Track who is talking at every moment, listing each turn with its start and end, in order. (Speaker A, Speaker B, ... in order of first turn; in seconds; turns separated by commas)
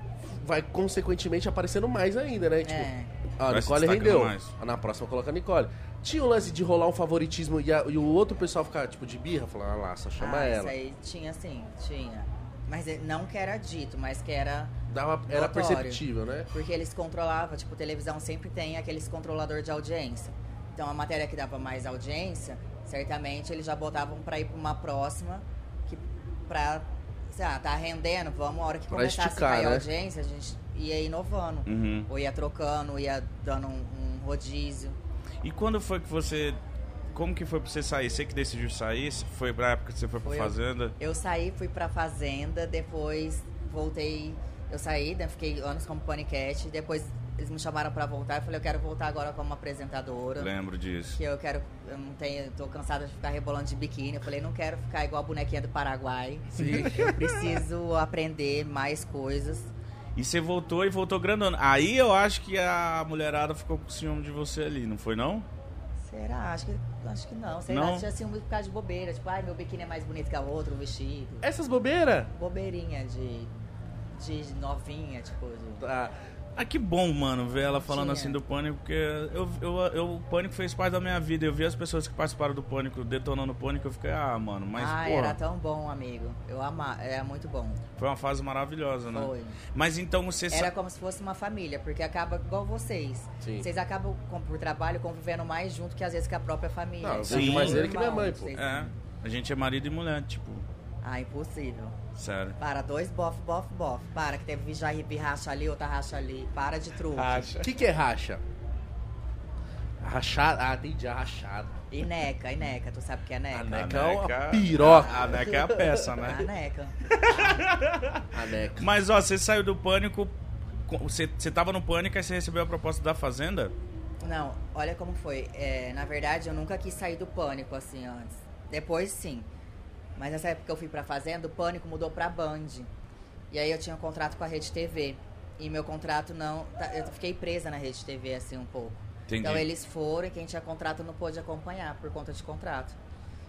Speaker A: 0.2-10.7, Speaker B: 2.6-3.1, Speaker C: 3.5-4.5, Speaker B: 10.2-14.7, Speaker A: 14.9-16.5, Speaker B: 15.3-35.0, Speaker A: 28.9-29.9, Speaker C: 31.7-32.1, Speaker C: 35.4-36.6, Speaker C: 37.1-41.0, Speaker B: 40.2-50.5, Speaker C: 50.4-51.2, Speaker B: 51.1-59.7, Speaker C: 56.6-57.6, Speaker C: 60.2-65.5, Speaker B: 66.0-71.5, Speaker C: 67.7-68.1, Speaker A: 71.4-72.3, Speaker B: 72.3-73.5, Speaker B: 74.1-75.9, Speaker A: 75.8-76.1, Speaker C: 76.6-85.4, Speaker B: 77.8-78.4, Speaker B: 84.8-87.8, Speaker C: 88.0-90.7, Speaker B: 89.1-89.6, Speaker B: 90.5-98.9, Speaker A: 97.0-98.5, Speaker C: 97.3-97.9, Speaker C: 98.5-100.7, Speaker B: 101.0-102.0, Speaker C: 102.2-102.6, Speaker B: 102.6-107.5, Speaker C: 107.1-107.7, Speaker A: 107.6-108.4, Speaker A: 110.0-111.8, Speaker B: 111.9-113.8, Speaker A: 113.5-116.1, Speaker C: 113.7-116.5, Speaker B: 116.2-117.0, Speaker C: 117.1-120.3, Speaker A: 118.3-118.9, Speaker C: 120.9-123.7, Speaker B: 124.2-129.5, Speaker B: 130.2-132.9, Speaker B: 133.5-143.0, Speaker C: 139.3-139.7